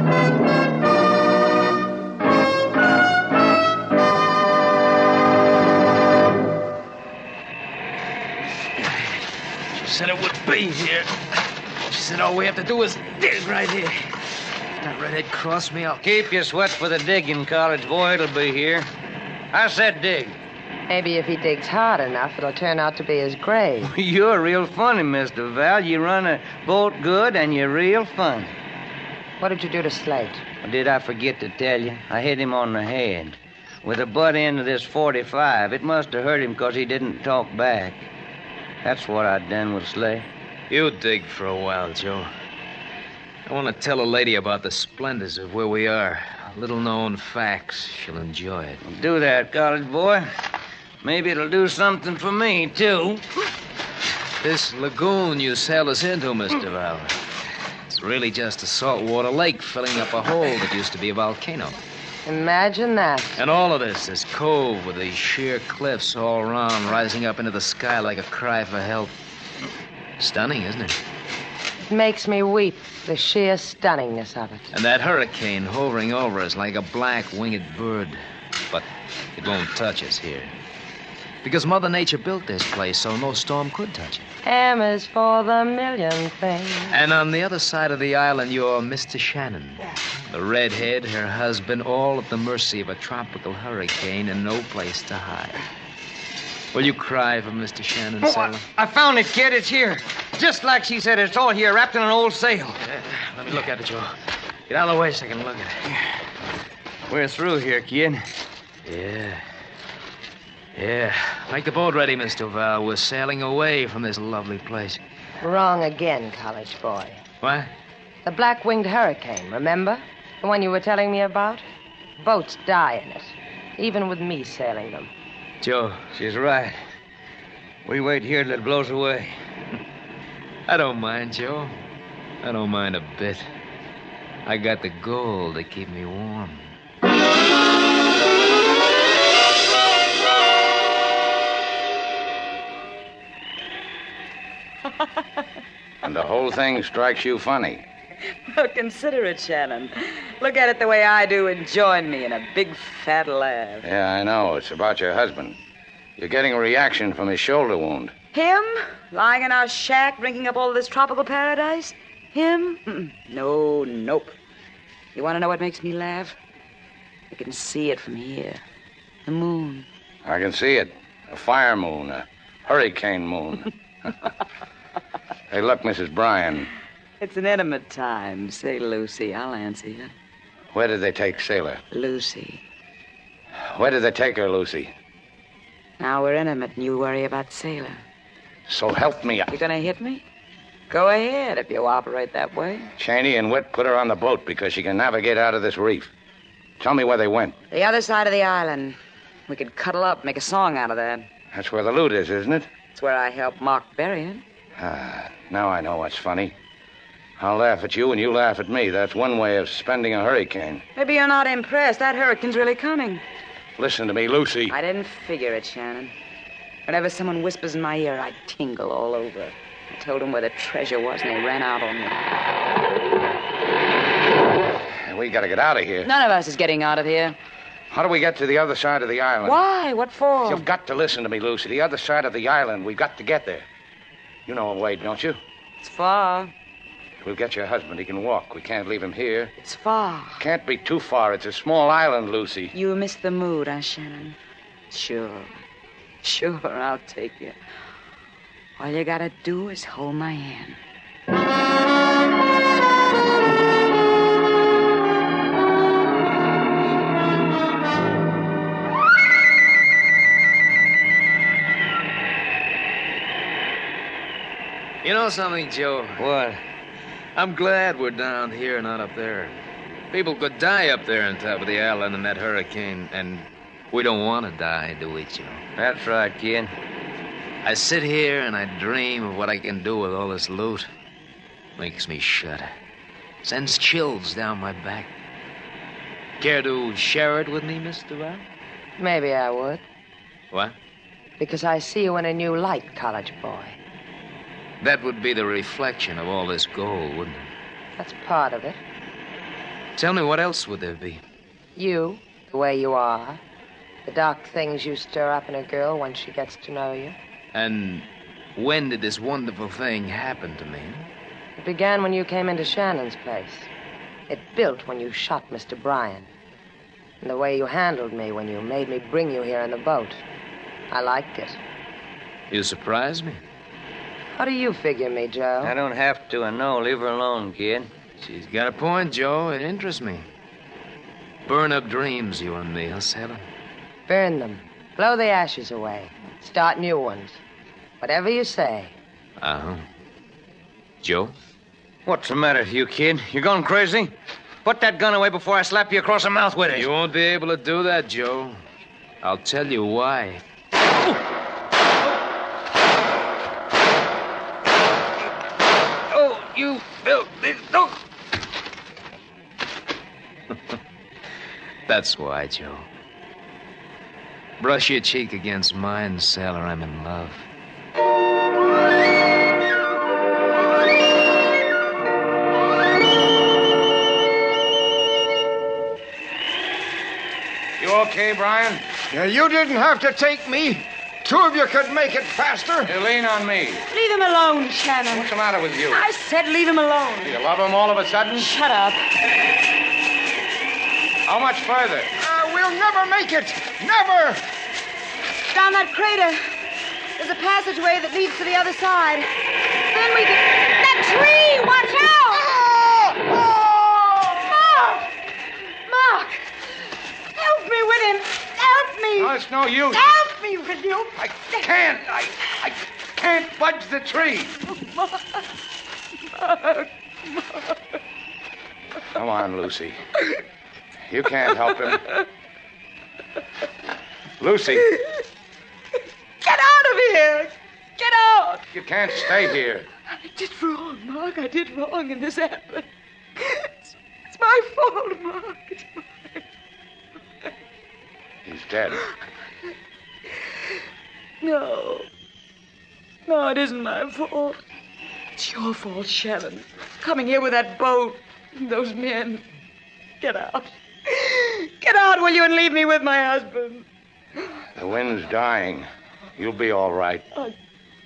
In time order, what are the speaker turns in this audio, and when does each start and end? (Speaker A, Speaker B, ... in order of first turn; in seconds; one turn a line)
Speaker A: 9.7-11.1
Speaker A: 11.9-14.0
Speaker A: 14.8-16.1
Speaker B: 16.0-18.9
Speaker B: 19.5-20.4
Speaker C: 20.9-23.9
Speaker B: 23.8-28.5
Speaker C: 29.4-30.4
Speaker B: 30.6-38.1
Speaker B: 38.8-40.3
Speaker A: 40.7-42.3
Speaker A: 43.5-48.8
Speaker B: 48.8-50.3
Speaker B: 51.0-53.2
Speaker A: 54.4-57.2
Speaker A: 57.9-61.8
Speaker C: 62.3-63.4
Speaker A: 63.4-69.2
Speaker A: 70.2-71.0
Speaker C: 71.9-74.7
Speaker A: 74.7-80.5
Speaker A: 81.4-84.3
Speaker C: 84.4-87.0
Speaker A: 86.9-95.6
Speaker A: 96.7-98.6
Speaker B: 98.2-102.8
Speaker A: 102.9-104.2
Speaker A: 104.7-105.8
Speaker B: 107.1-108.2
Speaker A: 108.9-109.4
Speaker A: 110.8-115.0
Speaker C: 115.4-117.2
Speaker A: 117.4-117.7
Speaker C: 118.2-121.6
Speaker C: 122.2-125.1
Speaker A: 125.6-126.0
Speaker B: 126.1-126.8
Speaker B: 127.8-129.3
Speaker A: 130.7-131.7
Speaker A: 132.4-133.5
Speaker A: 134.4-136.7
Speaker D: 146.0-147.8
Speaker E: 148.5-153.8
Speaker D: 153.8-155.6
Speaker D: 156.2-158.1
Speaker E: 158.3-164.4
Speaker E: 165.2-166.4
Speaker E: 167.3-168.6
Speaker E: 169.3-169.9
Speaker D: 170.2-173.7
Speaker D: 175.5-176.7
Speaker E: 177.2-180.1
Speaker D: 180.7-181.8
Speaker E: 181.9-182.6
Speaker D: 183.7-184.9
Speaker E: 186.0-188.0
Speaker D: 188.7-189.5
Speaker E: 189.5-190.2
Speaker E: 190.9-192.9
Speaker D: 193.0-196.1
Speaker D: 196.8-197.6
Speaker E: 197.7-199.0
Speaker E: 199.5-201.3
Speaker D: 201.5-202.7
Speaker E: 202.9-204.4
Speaker D: 204.8-206.6
Speaker D: 207.4-210.8
Speaker E: 210.9-213.2
Speaker D: 213.8-214.8
Speaker E: 214.7-216.1
Speaker E: 216.9-222.2
Speaker D: 225.1-226.1
Speaker E: 226.1-227.4
Speaker D: 227.9-229.6
Speaker E: 229.4-230.6
Speaker D: 230.4-233.7
Speaker D: 234.5-235.4
Speaker E: 235.8-236.5
Speaker D: 237.2-239.5
Speaker E: 239.6-240.4
Speaker D: 240.4-242.7
Speaker E: 242.7-244.4
Speaker E: 244.9-245.6
Speaker E: 246.2-247.6
Speaker E: 248.8-250.8
Speaker A: 265.0-266.2
Speaker B: 266.2-266.6
Speaker A: 267.4-269.6
Speaker A: 270.1-275.6
Speaker B: 275.8-276.7
Speaker A: 277.6-280.9
Speaker A: 281.8-282.7
Speaker A: 283.4-285.1
Speaker A: 286.4-288.4
Speaker C: 289.0-289.8
Speaker C: 291.4-293.8
Speaker A: 294.8-297.5
Speaker C: 298.0-298.8
Speaker A: 300.0-301.2
Speaker C: 301.8-303.4
Speaker C: 304.1-307.2
Speaker A: 307.5-311.1
Speaker C: 311.6-313.7
Speaker C: 314.3-316.3
Speaker C: 317.2-320.2
Speaker C: 320.9-321.6
Speaker A: 322.5-323.4
Speaker C: 324.4-325.7
Speaker B: 325.6-327.9
Speaker A: 328.2-330.3
Speaker A: 331.5-333.4
Speaker C: 334.1-337.4
Speaker C: 338.0-338.9
Speaker A: 339.4-339.9
Speaker A: 341.0-341.3
Speaker B: 342.1-344.1
Speaker B: 344.6-346.9
Speaker A: 346.7-348.6
Speaker A: 349.2-350.4
Speaker A: 356.1-357.9
Speaker A: 361.9-362.9
Speaker A: 364.6-367.5
Speaker D: 377.8-378.9
Speaker F: 379.1-382.9
Speaker D: 382.9-383.9
Speaker E: 383.9-385.3
Speaker D: 385.1-386.0
Speaker E: 385.9-387.4
Speaker D: 387.2-388.5
Speaker E: 388.4-389.0
Speaker D: 391.2-392.1
Speaker F: 392.2-394.4
Speaker E: 395.5-396.4
Speaker E: 397.2-399.3
Speaker E: 399.9-405.1
Speaker E: 405.9-406.4
Speaker E: 407.4-409.4
Speaker D: 409.2-410.0
Speaker E: 409.9-411.7
Speaker D: 411.6-414.6
Speaker E: 414.7-415.2
Speaker E: 416.4-417.7
Speaker D: 419.1-420.0
Speaker D: 421.1-422.0
Speaker D: 424.4-424.8
Speaker E: 426.4-428.6
Speaker D: 428.7-429.9
Speaker E: 430.1-432.9
Speaker E: 433.4-436.4
Speaker D: 438.4-439.0
Speaker E: 441.4-442.1
Speaker E: 443.3-444.6
Speaker E: 445.4-449.5
Speaker E: 450.2-453.9
Speaker D: 454.8-455.9
Speaker D: 456.4-457.2